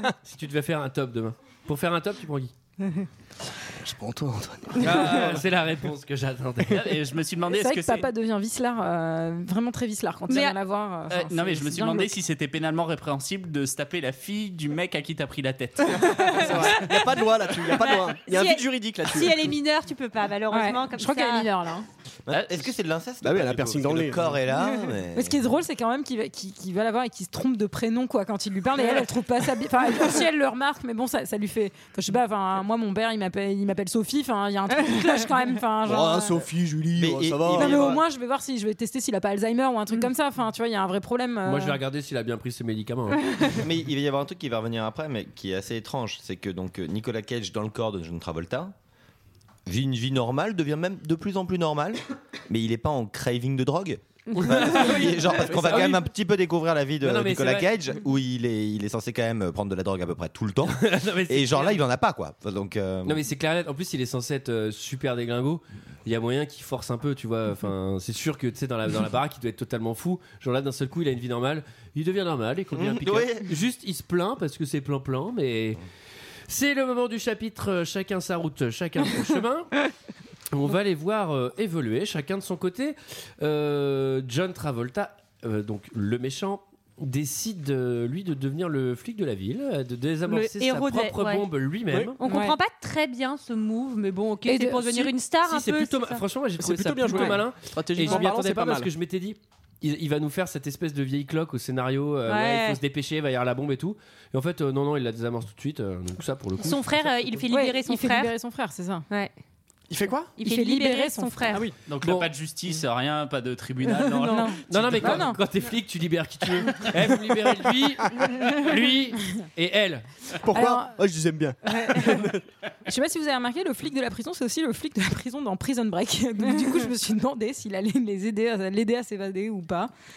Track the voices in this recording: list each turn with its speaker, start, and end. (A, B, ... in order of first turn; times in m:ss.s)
0:00.2-0:02.5 A
0:03.8-0:05.4 B
0:04.8-0:06.8 A
0:06.7-0:08.1 C
0:07.5-0:12.1 D
0:10.3-0:10.6 E
0:11.1-0:16.8 C
0:16.3-0:19.5 B
0:17.7-0:21.5 E
0:20.5-0:21.9 D
0:22.3-0:25.4 F
0:23.2-0:24.3 B
0:25.1-0:36.4 D
0:35.8-0:38.0 B
0:37.0-0:38.0 F
0:37.6-0:41.8 D
0:41.4-0:43.3 A
0:43.5-0:48.8 F
0:49.7-1:03.2 F
0:54.4-0:56.1 A
0:55.4-0:56.0 B
0:57.0-0:57.7 A
1:00.7-1:01.8 A
1:03.0-1:15.8 A
1:12.7-1:13.5 F
1:16.5-1:19.8 A
1:20.5-1:32.2 A
1:30.3-1:31.5 E
1:31.9-1:32.2 B
1:32.2-1:36.2 E
1:32.2-1:32.6 D
1:34.4-1:35.1 D
1:35.5-1:47.2 A
1:36.6-1:38.9 B
1:42.3-1:42.8 E
1:46.6-1:48.3 E
1:47.5-1:49.0 D
1:49.9-1:50.4 B
1:50.4-1:51.6 E
1:50.4-1:51.6 D
1:51.9-1:55.3 C
1:52.0-1:52.3 A
1:54.0-1:55.4 D
1:54.7-2:00.0 A
2:00.4-2:02.4 B
2:00.5-2:01.0 D
2:02.9-2:09.9 D